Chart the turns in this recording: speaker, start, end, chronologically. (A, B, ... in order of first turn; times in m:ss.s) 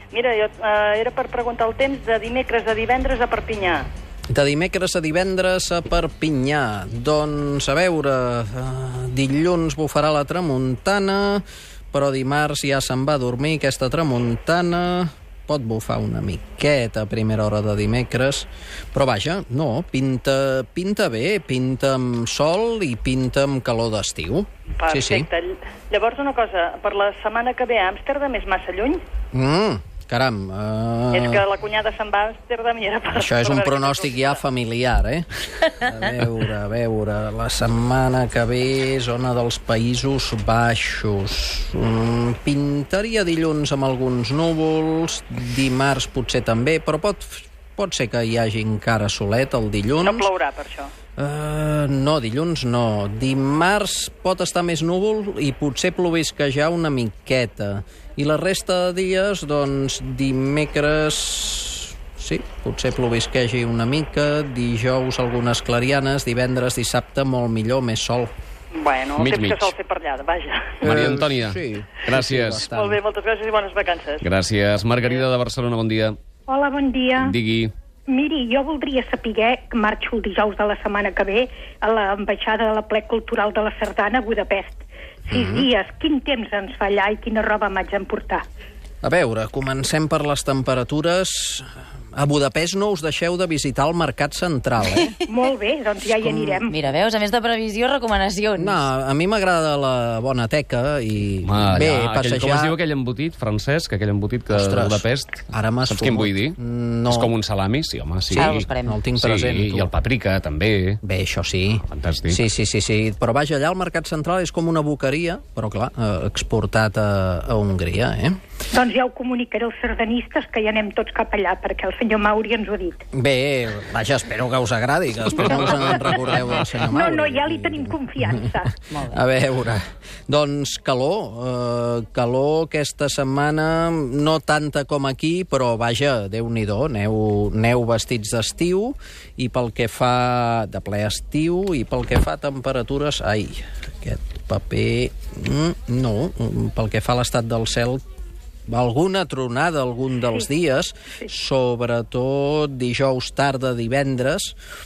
0:00.1-0:03.9 A
0:04.3-0:25.3 B
0:24.8-0:29.0 A
0:29.3-0:31.5 B
0:31.1-0:34.4 A
0:33.1-0:50.3 B
0:50.0-0:50.9 A
0:51.2-1:08.3 B
1:08.7-1:10.9 A
1:09.2-1:09.7 C
1:10.8-1:12.7 C
1:10.8-1:13.0 B
1:12.7-1:14.2 A
1:14.2-1:16.2 C
1:16.5-1:17.4 D
1:17.2-1:17.7 C
1:18.1-1:28.4 D
1:25.3-1:25.7 B
1:29.0-1:35.1 B
1:35.2-1:36.8 D
1:36.2-1:36.6 B
1:36.7-1:38.8 E
1:38.6-1:42.8 B
1:41.4-1:46.6 C
1:44.5-1:47.3 B
1:47.1-1:51.0 C
1:48.3-1:49.0 E
1:48.8-1:49.9 B
1:51.0-1:58.4 B
1:51.8-1:52.4 C
1:58.7-2:03.0 D
2:03.2-2:28.0 B
2:06.4-2:08.7 D
2:08.9-2:09.2 E
2:28.7-2:34.6 B